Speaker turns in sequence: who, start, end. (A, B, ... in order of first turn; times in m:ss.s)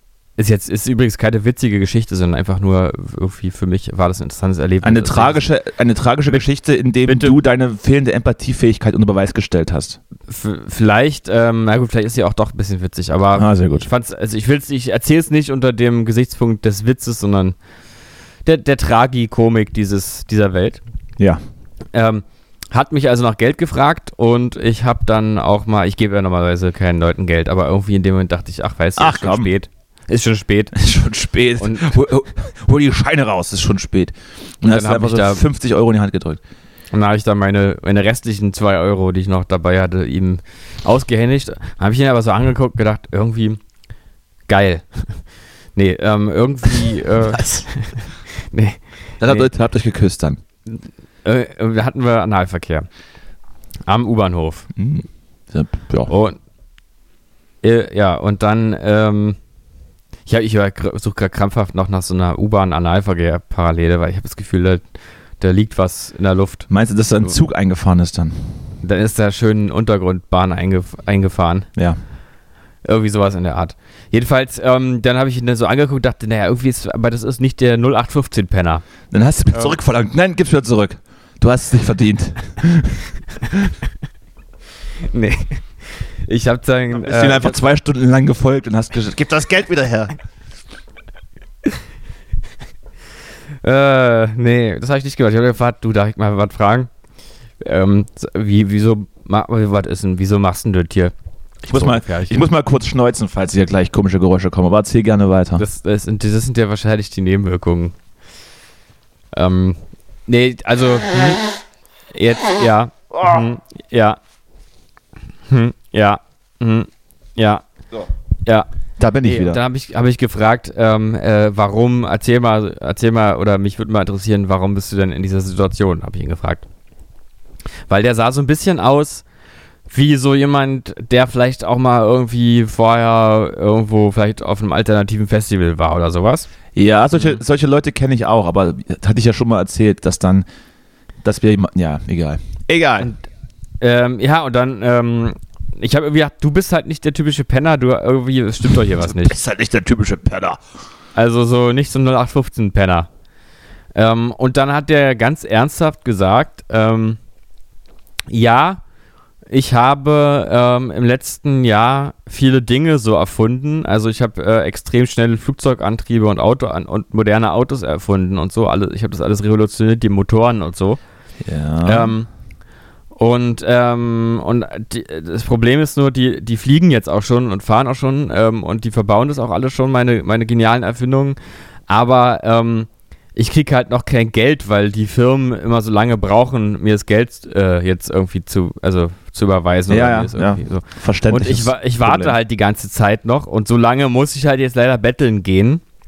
0:00.4-0:05.4 A
0:04.8-0:10.0 B
0:07.1-0:07.4 A
0:10.3-0:17.6 A
0:13.4-0:13.9 B
0:18.4-0:20.8 A
0:21.9-0:30.7 A
0:29.0-0:29.5 B
0:30.8-0:36.4 B
0:31.6-0:32.0 A
0:34.7-0:35.4 A
0:36.9-0:43.6 A
0:44.5-0:45.2 A
0:45.8-0:49.5 A
0:47.3-0:47.7 B
0:49.2-0:50.4 B
0:51.2-0:52.9 A
0:53.9-0:54.7 A
0:54.8-0:56.1 B
0:56.1-0:56.4 A
0:57.6-0:59.4 A
1:00.3-1:04.8 A
1:05.4-1:06.7 A
1:06.7-1:08.5 B
1:08.8-1:11.7 A
1:12.8-1:18.8 A
1:19.1-1:23.7 B
1:25.0-1:27.6 A
1:26.9-1:30.1 B
1:33.6-1:36.9 A
1:37.6-1:41.1 A
1:41.6-1:45.6 B
1:41.7-1:42.4 A
1:45.6-1:47.9 A
1:49.3-1:51.4 A
1:52.1-1:54.2 A
1:55.5-1:57.6 A
1:59.0-1:59.6 B
1:59.2-2:06.6 A
2:07.9-2:09.2 A
2:09.9-2:16.5 A
2:16.8-2:20.5 B
2:21.2-2:23.1 B
2:23.8-2:29.4 A
2:28.9-2:30.6 B
2:31.2-2:33.1 A
2:34.0-2:37.2 A
2:38.3-2:38.8 A
2:39.5-2:51.0 A
2:51.4-2:52.2 B
2:51.8-2:52.3 A
2:53.1-3:01.4 A
3:01.9-3:15.8 A
3:09.9-3:12.4 B